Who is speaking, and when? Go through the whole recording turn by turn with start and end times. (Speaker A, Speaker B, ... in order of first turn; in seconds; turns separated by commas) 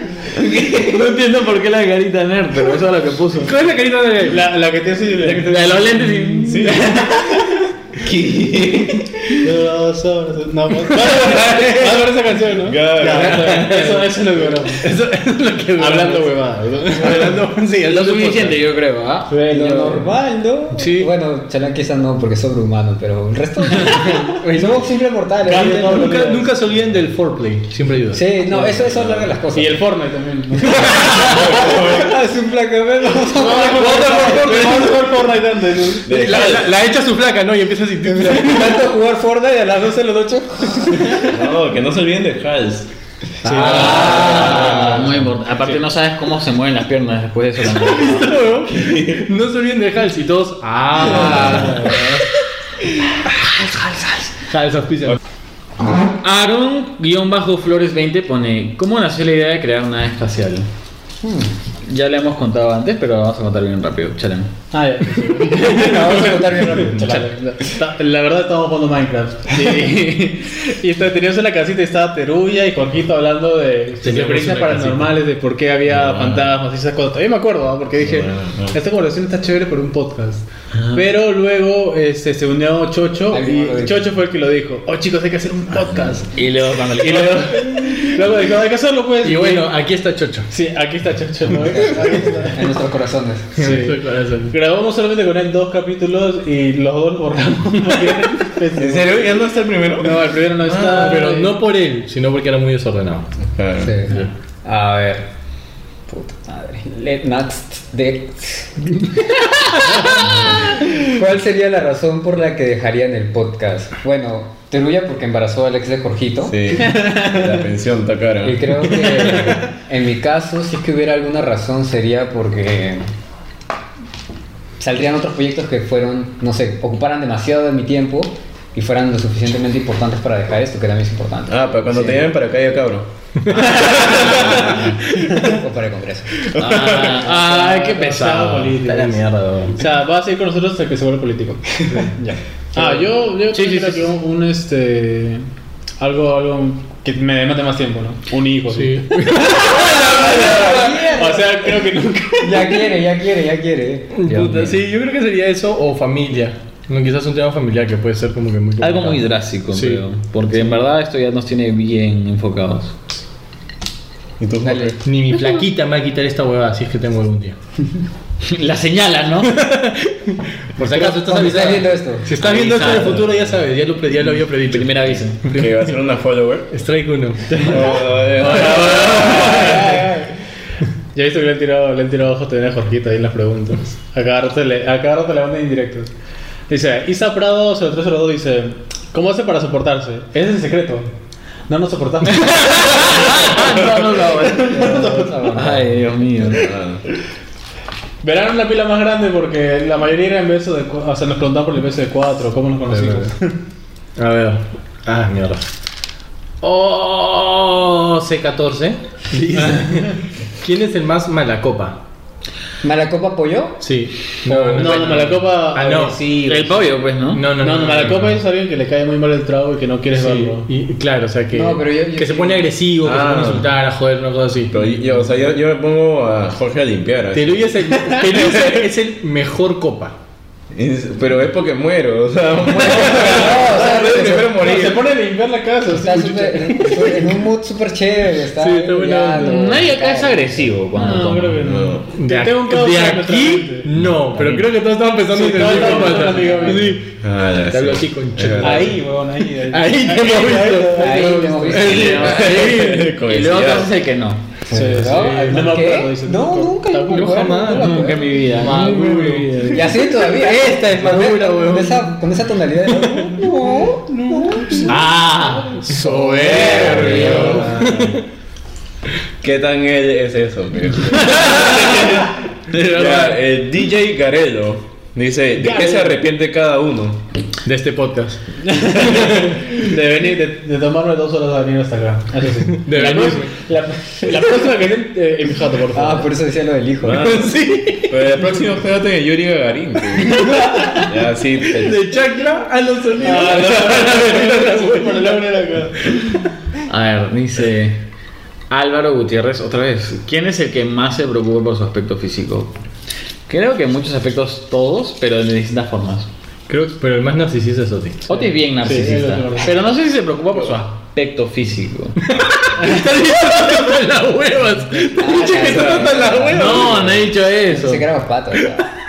Speaker A: 0.3-1.1, Speaker B: 0.7-3.5, Speaker C: 3.5-4.5, Speaker D: 4.2-5.9, Speaker B: 5.2-7.2, Speaker A: 6.5-7.4, Speaker D: 7.2-7.6, Speaker A: 8.0-9.4, Speaker D: 9.4-14.9, Speaker C: 10.9-12.1, Speaker A: 11.5-11.8, Speaker A: 12.6-13.8, Speaker C: 13.0-16.3, Speaker D: 15.8-17.4, Speaker C: 16.9-18.6, Speaker B: 17.8-19.4, Speaker D: 19.3-20.1, Speaker E: 19.5-26.2, Speaker C: 20.8-21.1, Speaker C: 24.4-24.8, Speaker D: 25.4-26.5, Speaker C: 25.4-28.2, Speaker E: 28.1-29.8, Speaker D: 28.5-28.8, Speaker A: 28.8-29.3, Speaker D: 29.5-31.2, Speaker A: 30.8-32.2, Speaker C: 30.9-31.4, Speaker E: 31.2-34.7, Speaker D: 33.3-36.1, Speaker C: 33.4-35.0, Speaker A: 36.0-36.7, Speaker C: 36.1-38.9, Speaker E: 38.0-41.4, Speaker A: 41.2-42.9, Speaker C: 43.4-45.0, Speaker D: 43.5-45.0, Speaker E: 43.5-44.9, Speaker B: 43.6-48.5, Speaker A: 44.4-45.1, Speaker C: 47.7-52.1, Speaker A: 48.7-49.3, Speaker D: 51.1-52.2, Speaker B: 51.1-51.7, Speaker A: 51.4-51.8, Speaker C: 53.3-55.2, Speaker B: 56.2-60.7, Speaker E: 61.2-61.5, Speaker B: 61.8-64.5, Speaker D: 64.7-86.3, Speaker E: 65.5-67.3, Speaker C: 74.0-75.2, Speaker A: 75.8-76.6, Speaker A: 78.0-78.8, Speaker E: 83.3-84.1, Speaker B: 86.3-87.8, Speaker D: 86.9-89.7, Speaker C: 89.2-90.5, Speaker D: 90.5-92.8, Speaker E: 91.8-93.8, Speaker D: 93.6-99.3, Speaker C: 93.6-94.5, Speaker A: 98.8-101.4, Speaker D: 99.9-101.5, Speaker C: 100.9-103.3, Speaker A: 103.5-104.0, Speaker E: 103.8-105.3, Speaker E: 106.1-116.9, Speaker A: 116.5-118.8, Speaker D: 116.9-117.5, Speaker E: 118.4-123.0, Speaker D: 118.9-119.6, Speaker E: 124.8-132.2, Speaker A: 131.5-134.9, Speaker B: 133.8-134.9, Speaker E: 134.5-136.5, Speaker A: 136.4-137.3, Speaker B: 136.6-138.8, Speaker D: 137.2-139.2, Speaker C: 138.8-139.9, Speaker D: 139.8-142.1, Speaker E: 141.9-142.9, Speaker D: 142.7-145.5, Speaker B: 143.4-144.1, Speaker D: 146.0-152.9, Speaker C: 148.7-151.0, Speaker E: 150.2-151.7, Speaker E: 152.4-154.8, Speaker C: 154.1-160.0, Speaker B: 158.8-162.9, Speaker A: 164.4-165.0, Speaker E: 164.6-165.0, Speaker C: 165.0-167.6, Speaker B: 168.4-169.6, Speaker C: 169.4-176.0, Speaker E: 170.8-172.3, Speaker B: 172.4-173.3, Speaker B: 174.7-175.4, Speaker A: 175.5-176.7, Speaker C: 176.7-177.8, Speaker D: 177.5-177.8, Speaker A: 177.6-180.0, Speaker C: 178.4-179.8, Speaker B: 178.4-179.7, Speaker D: 178.5-180.3, Speaker E: 179.6-180.0, Speaker D: 181.1-186.1, Speaker D: 186.7-191.1, Speaker D: 191.7-195.7, Speaker B: 192.3-196.7, Speaker E: 194.6-195.9, Speaker A: 196.4-197.0, Speaker D: 198.2-203.6, Speaker C: 202.9-203.3, Speaker C: 204.2-205.7, Speaker C: 206.6-212.0, Speaker D: 209.6-210.1, Speaker E: 212.8-213.9, Speaker C: 213.8-216.2, Speaker E: 214.5-215.0, Speaker D: 214.7-216.7, Speaker B: 216.5-217.4, Speaker C: 217.3-218.4, Speaker D: 217.6-220.7, Speaker C: 220.2-224.8, Speaker E: 221.5-222.7, Speaker A: 223.0-223.7, Speaker A: 224.7-227.7, Speaker C: 227.3-230.2, Speaker A: 228.4-228.8, Speaker A: 230.7-235.1, Speaker E: 232.7-234.6, Speaker D: 234.5-237.0, Speaker E: 235.9-240.7, Speaker C: 238.5-239.8, Speaker B: 239.4-241.6, Speaker D: 240.9-243.9, Speaker A: 241.6-242.1, Speaker C: 242.2-247.1, Speaker D: 245.3-247.0, Speaker E: 246.2-246.8, Speaker A: 247.2-249.0, Speaker C: 247.7-249.0, Speaker D: 248.6-251.8, Speaker C: 249.6-253.1, Speaker E: 250.9-252.2, Speaker B: 251.7-254.4, Speaker A: 251.8-253.9, Speaker E: 254.7-258.3, Speaker D: 254.7-257.4, Speaker C: 254.9-255.8, Speaker C: 257.1-262.1, Speaker B: 257.7-259.5, Speaker D: 258.7-259.8, Speaker E: 259.7-264.9, Speaker D: 263.2-266.6, Speaker C: 264.9-268.2, Speaker E: 266.3-268.1, Speaker B: 266.3-267.4, Speaker A: 266.6-268.1, Speaker D: 267.1-267.7, Speaker A: 269.4-277.2, Speaker C: 271.3-272.1, Speaker C: 272.8-273.4, Speaker B: 272.9-273.3, Speaker D: 275.6-276.2, Speaker C: 277.6-279.8, Speaker D: 278.6-286.3, Speaker C: 282.7-283.6, Speaker E: 285.9-287.3, Speaker A: 287.0-287.6, Speaker C: 287.2-288.6, Speaker A: 288.1-292.0, Speaker C: 290.3-290.8, Speaker D: 290.4-291.0, Speaker C: 291.7-296.4, Speaker D: 293.2-296.2, Speaker A: 293.4-294.4, Speaker B: 296.9-298.0, Speaker B: 298.7-302.7, Speaker B: 303.5-306.3, Speaker C: 306.7-308.4, Speaker B: 308.3-312.2, Speaker D: 308.8-309.8, Speaker C: 312.2-317.0, Speaker D: 312.8-313.1, Speaker E: 315.0-317.0, Speaker A: 315.5-317.3, Speaker B: 316.5-318.1, Speaker E: 317.7-318.9